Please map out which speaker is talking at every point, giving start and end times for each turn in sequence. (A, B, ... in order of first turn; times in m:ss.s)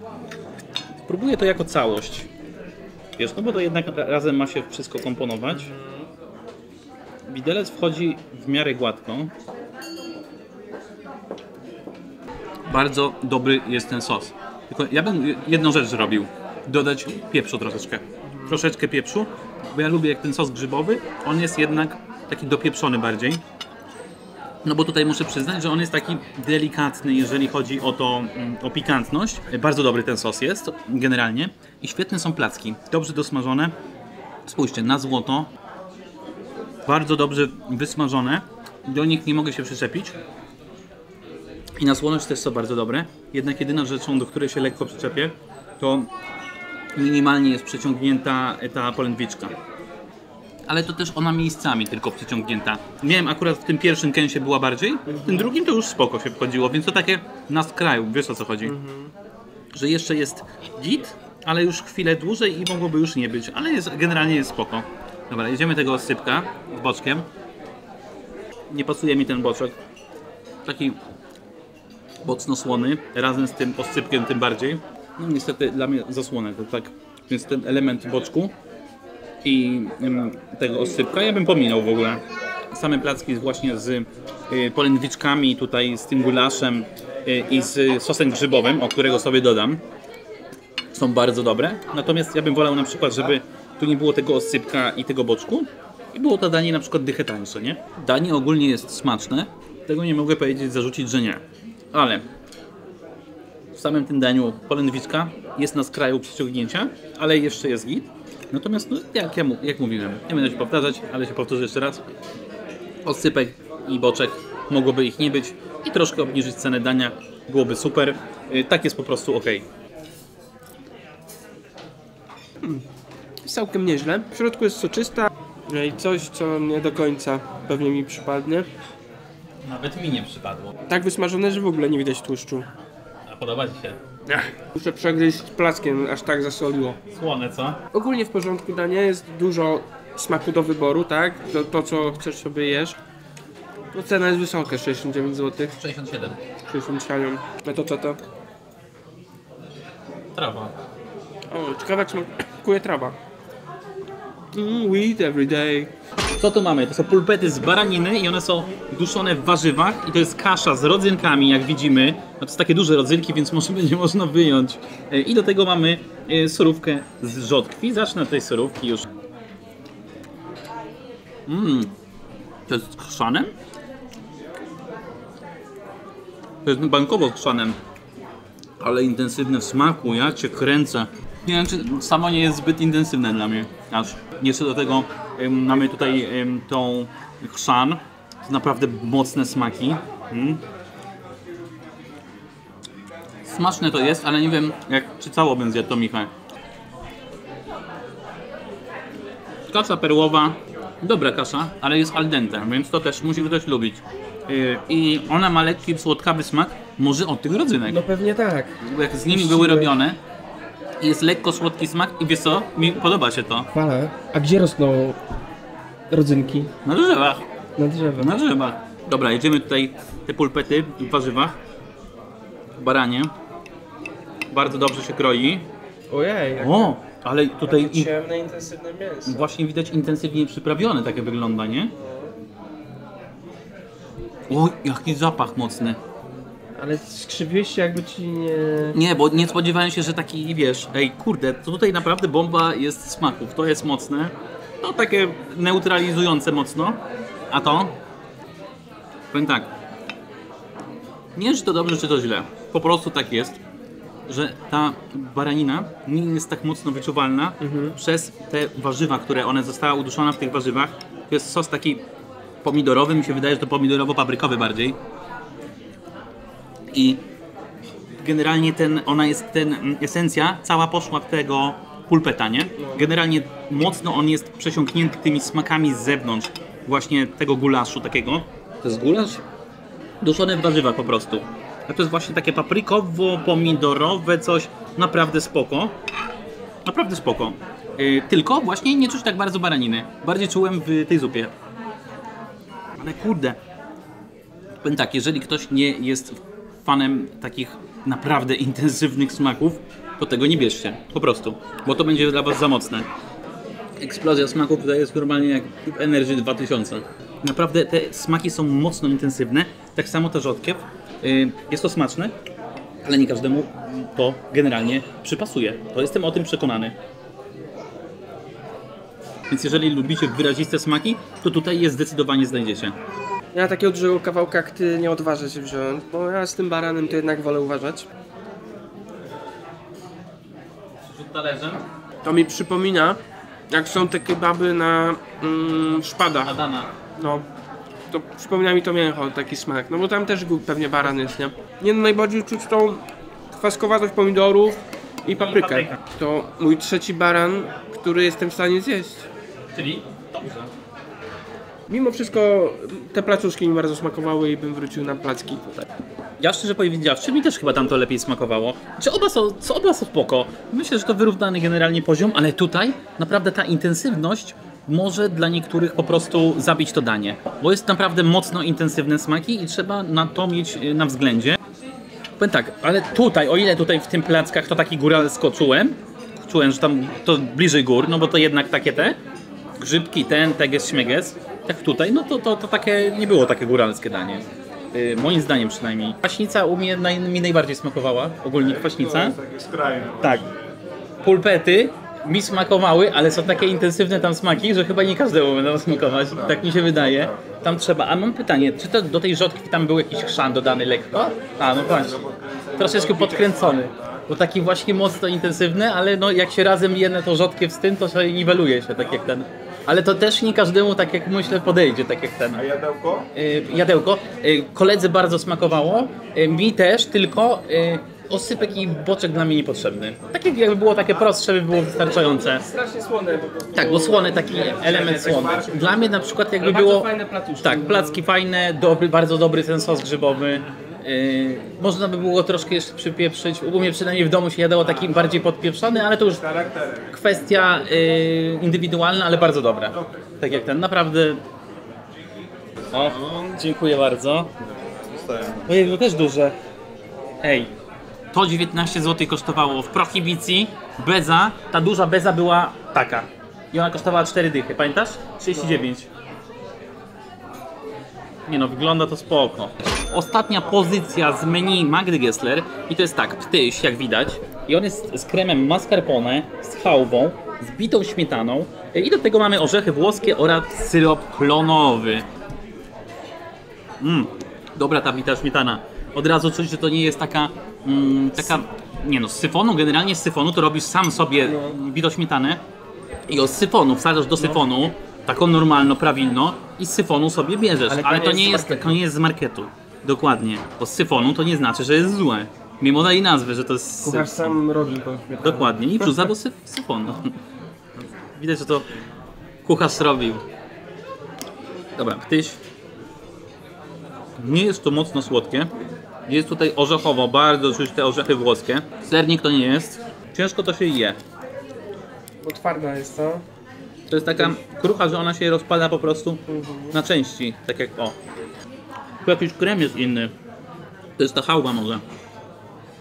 0:01.0-0:02.3 A
0:03.2-0:05.7 A
0:05.5-0:06.1 B
0:07.3-0:09.3 A
0:12.7-0:23.4 A
0:18.3-0:18.6 B
0:24.6-0:33.7 A
0:34.5-0:35.5 A
0:36.9-0:40.2 A
0:41.8-0:46.1 A
0:47.0-0:49.5 A
0:50.7-0:58.7 A
0:55.1-0:55.5 B
0:58.6-0:59.1 B
0:59.7-1:07.3 A
1:08.7-1:09.8 A
1:10.6-1:11.0 A
1:12.2-1:18.6 A
1:19.4-1:29.8 A
1:30.9-1:42.3 A
1:43.7-1:52.0 A
1:53.0-1:59.6 A
2:03.4-2:08.7 B
2:09.6-2:10.7 A
2:10.9-2:12.7 B
2:13.3-2:14.0 A
2:14.3-2:17.0 B
2:17.1-2:17.8 A
2:17.9-2:23.0 B
2:23.9-2:25.8 B
2:25.8-2:26.4 A
2:26.7-2:28.2 B
2:30.4-2:30.7 A
2:31.5-2:33.2 B
2:34.5-2:35.9 B
2:36.4-2:49.1 A
2:51.5-2:51.9 A
2:52.7-2:53.5 A
2:56.6-2:57.8 A
2:58.8-3:10.6 A
3:13.4-3:16.3 A
3:19.7-3:28.0 A
3:27.9-3:29.9 B
3:28.8-3:30.2 A
3:31.0-3:33.7 A
3:33.7-3:35.2 B
3:36.1-3:36.7 B
3:36.8-3:37.4 A
3:37.8-3:38.3 B
3:38.2-3:41.6 A
3:42.8-3:43.3 A
3:44.5-3:45.7 A
3:46.1-3:46.9 B
3:46.6-3:48.1 A
3:47.6-3:49.5 B
3:49.2-3:51.9 A
3:51.9-3:52.3 B
3:54.5-3:56.0 A
3:56.8-3:59.0 B
3:58.9-4:07.0 A
4:07.5-4:07.9 A
4:09.3-4:09.7 A
4:11.4-4:13.6 A
4:14.3-4:22.0 A
4:17.6-4:17.9 B
4:22.6-4:25.0 A
4:26.9-4:27.2 A
4:28.2-4:39.4 A
4:32.8-4:33.1 B
4:40.2-4:45.9 A
4:46.9-4:51.5 A
4:53.0-4:53.6 A
4:54.8-5:03.1 A
5:04.0-5:12.3 A
5:13.0-5:17.0 A
5:19.5-5:22.9 A
5:23.6-5:28.0 B
5:31.0-5:31.8 A
5:32.2-5:33.2 B
5:33.7-5:36.5 B
5:36.4-5:36.9 A
5:37.2-5:37.4 B
5:38.1-5:49.3 B
5:45.3-5:46.0 A
5:49.7-5:50.7 A
5:51.9-5:55.7 B
5:56.4-6:11.6 A
6:12.4-6:19.2 A
6:19.8-6:29.4 A
6:28.6-6:30.6 C
6:30.2-6:30.4 A
6:31.2-6:42.1 A
6:35.8-6:37.4 C
6:41.5-6:44.1 C
6:42.8-6:52.6 A
6:52.5-6:53.3 C
6:53.3-7:02.6 A
7:01.9-7:08.2 B
7:03.7-7:07.1 A
7:07.6-7:16.4 A
7:14.9-7:15.4 C
7:16.0-7:17.3 C
7:17.1-7:21.4 A
7:19.9-7:20.7 C
7:22.9-7:23.6 C
7:22.9-7:24.5 A
7:24.6-7:26.1 C
7:25.7-7:26.6 A
7:27.4-7:27.7 A
7:28.3-7:36.1 A
7:38.5-7:52.2 A
7:54.0-8:02.6 A
8:01.4-8:01.7 B
8:03.3-8:14.6 A
8:07.9-8:09.0 B
8:14.0-8:16.3 B
8:15.4-8:17.4 A
8:18.0-8:18.9 A
8:19.6-8:20.4 A
8:22.0-8:22.6 A
8:24.4-8:25.7 A
8:26.3-8:31.2 A
8:32.4-8:33.4 B
8:34.1-8:36.4 A
8:36.5-8:36.9 B
8:36.9-8:38.2 A
8:39.2-8:40.3 A
8:41.2-8:42.0 A